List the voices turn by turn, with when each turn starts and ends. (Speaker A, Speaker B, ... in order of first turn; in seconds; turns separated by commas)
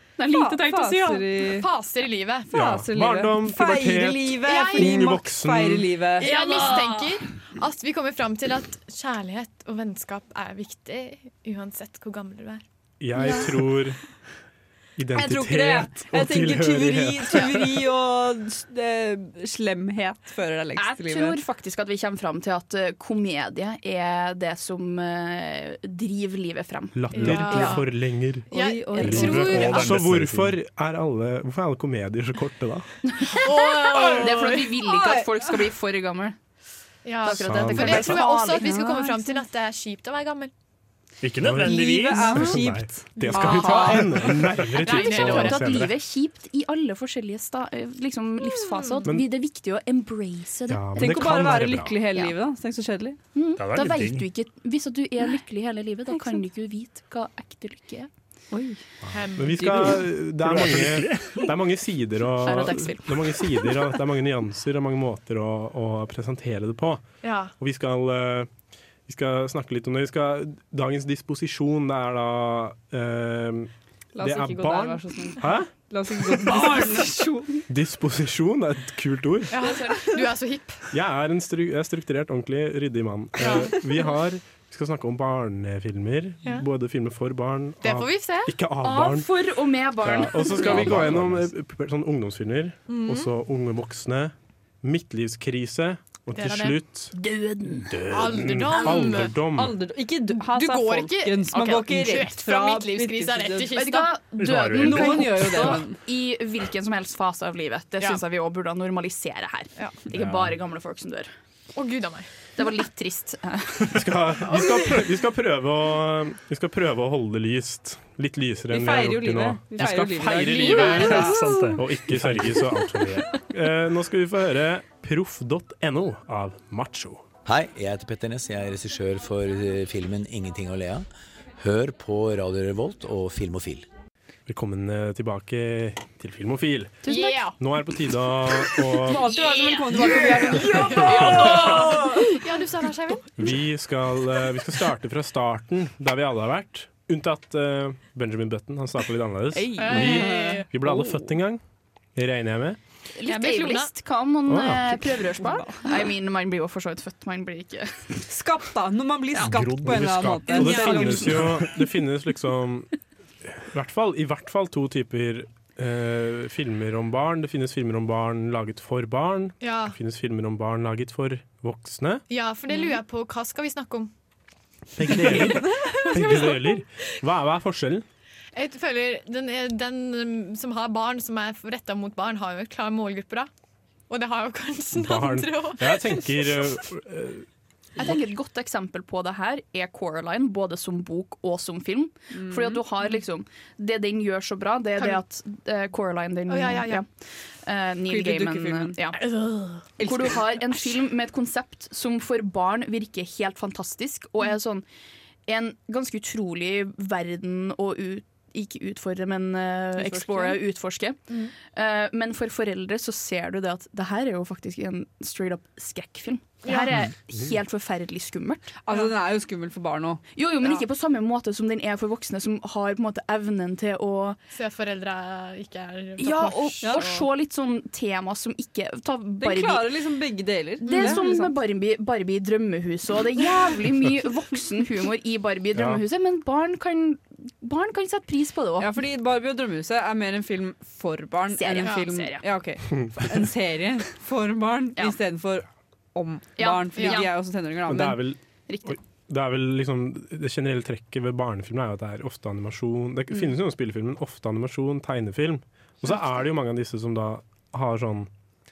Speaker A: 0.2-1.3, Speaker B: 0.3-1.7, Speaker C: 1.4-2.5, Speaker B: 2.5-6.3, Speaker D: 2.5-5.9, Speaker C: 4.4-5.1, Speaker C: 6.2-12.6, Speaker A: 6.2-7.2, Speaker D: 13.0-14.0, Speaker A: 13.2-13.5, Speaker D: 14.9-17.9, Speaker B: 15.1-21.4, Speaker A: 20.8-27.8, Speaker D: 26.9-28.5, Speaker C: 27.1-27.9, Speaker C: 28.5-30.0, Speaker B: 28.5-29.6, Speaker D: 29.0-32.9, Speaker E: 29.0-30.6, Speaker A: 33.1-36.4, Speaker C: 33.4-34.7, Speaker B: 34.8-35.3, Speaker C: 37.0-40.5, Speaker A: 37.2-38.7, Speaker D: 37.3-38.1, Speaker B: 37.7-39.4, Speaker E: 41.2-42.5, Speaker D: 41.4-45.9, Speaker B: 41.6-44.1, Speaker C: 43.2-45.8, Speaker A: 44.8-51.2, Speaker C: 48.4-49.0, Speaker D: 50.7-52.0, Speaker B: 51.0-53.2, Speaker A: 53.3-58.1, Speaker E: 53.6-54.3, Speaker B: 58.5-58.8, Speaker D: 59.1-67.0, Speaker C: 59.1-59.8, Speaker B: 59.5-60.0, Speaker E: 60.4-61.5, Speaker A: 62.4-63.7, Speaker C: 67.2-67.5, Speaker D: 67.6-68.5, Speaker D: 69.1-75.7, Speaker B: 74.2-77.6, Speaker D: 76.2-76.5, Speaker D: 77.7-79.5, Speaker C: 79.5-80.9, Speaker A: 79.6-80.1, Speaker D: 80.9-89.3, Speaker C: 83.4-83.7, Speaker C: 87.8-88.5, Speaker A: 88.8-91.2, Speaker D: 90.0-97.1, Speaker C: 92.9-93.3, Speaker C: 96.3-96.8, Speaker A: 97.1-98.1, Speaker D: 97.8-99.8, Speaker C: 98.1-99.3, Speaker B: 99.5-103.8, Speaker C: 100.3-104.1, Speaker A: 101.5-102.3, Speaker A: 103.7-111.3, Speaker E: 104.4-105.8, Speaker B: 104.7-106.0, Speaker E: 110.1-110.5, Speaker C: 111.7-112.3, Speaker A: 112.5-114.1, Speaker D: 113.9-127.2, Speaker B: 118.7-121.7, Speaker E: 120.8-123.2, Speaker F: 127.4-131.1, Speaker F: 131.6-133.9, Speaker D: 134.5-137.0, Speaker A: 137.0-137.5, Speaker C: 137.0-137.6, Speaker D: 137.6-139.3, Speaker A: 139.0-142.4, Speaker B: 139.0-142.2, Speaker C: 140.7-143.3, Speaker D: 143.4-151.6, Speaker A: 149.7-150.2, Speaker C: 149.8-150.7, Speaker B: 149.8-150.7, Speaker D: 152.1-152.8, Speaker A: 153.2-158.2, Speaker C: 153.2-153.9, Speaker D: 154.5-155.1, Speaker B: 158.3-161.4, Speaker E: 159.4-160.1, Speaker D: 159.8-162.9, Speaker C: 160.5-161.2, Speaker E: 161.4-161.7, Speaker D: 163.4-172.2, Speaker C: 169.6-169.9, Speaker C: 172.3-174.1, Speaker D: 174.9-178.1, Speaker C: 175.1-176.8, Speaker C: 178.5-183.5, Speaker C: 184.1-186.8, Speaker D: 184.9-187.4, Speaker A: 188.0-197.1, Speaker B: 192.3-192.8, Speaker C: 196.5-197.0, Speaker A: 197.6-204.8, Speaker B: 198.1-199.0, Speaker B: 200.0-200.5, Speaker A: 205.5-218.7, Speaker B: 209.9-210.6, Speaker C: 216.6-216.9, Speaker B: 218.8-220.2, Speaker A: 220.3-224.4, Speaker C: 224.5-227.2, Speaker A: 226.2-229.9, Speaker B: 226.8-227.2, Speaker B: 229.4-231.5, Speaker A: 230.8-239.0, Speaker C: 230.9-231.2, Speaker D: 235.7-236.0, Speaker B: 238.8-248.2, Speaker A: 241.6-242.4, Speaker A: 246.6-247.3, Speaker C: 246.9-247.2, Speaker D: 247.9-258.3, Speaker A: 248.7-249.0